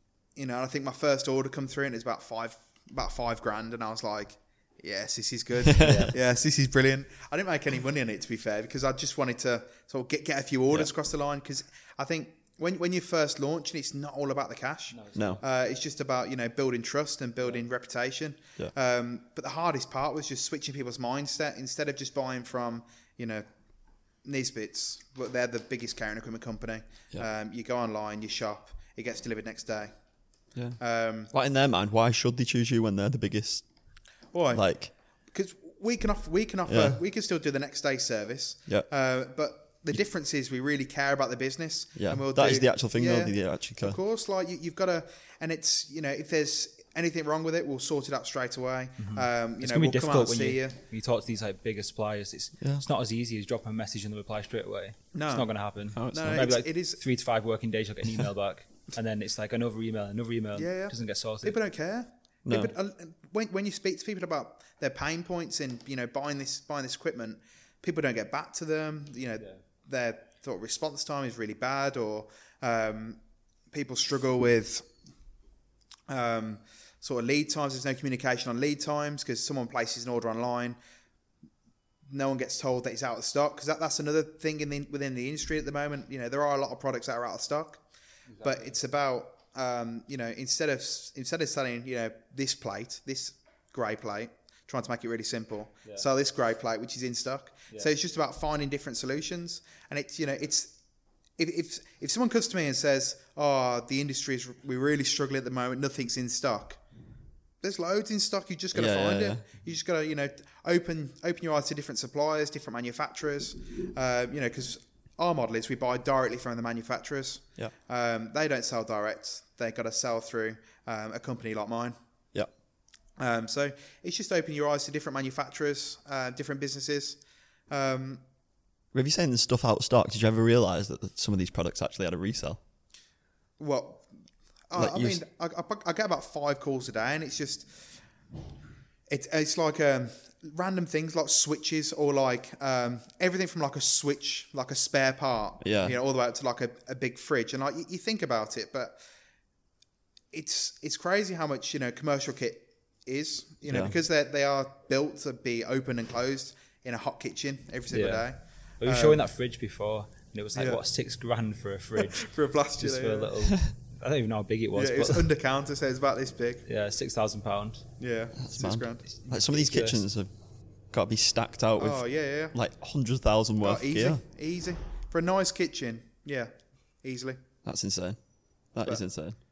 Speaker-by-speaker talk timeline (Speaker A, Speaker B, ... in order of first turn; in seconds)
Speaker A: 0.4-23.4, 24.2-29.9, 30.8-31.3, 34.3-34.6, 35.3-50.8, 55.1-55.5, 56.1-57.0, 60.6-73.2, 73.7-74.9, 76.1-80.8, 82.1-87.8, 88.4-100.8, 101.4-106.8, 107.6-122.0, 123.2-127.2, 127.7-128.2, 133.6-134.1, 134.7-137.7, 139.1-149.0, 150.3-159.2, 160.6-160.8, 162.0-163.3, 164.8-166.6, 168.0-169.1, 171.8-172.6, 173.6-177.4
Speaker B: 5.7-6.1, 15.2-15.4, 31.3-33.6, 34.5-34.9, 36.7-37.0, 42.0-44.0, 55.9-56.5, 62.5-62.7, 108.7-109.4, 128.9-132.6, 134.8-135.2, 145.6-146.0, 153.7-153.9, 168.4-170.3, 170.9-174.2, 177.7-178.2, 178.7-179.4
Speaker C: 5.8-6.1, 14.9-15.4, 49.0-61.6, 88.3-88.8, 157.9-165.3, 166.7-167.9, 169.1-170.0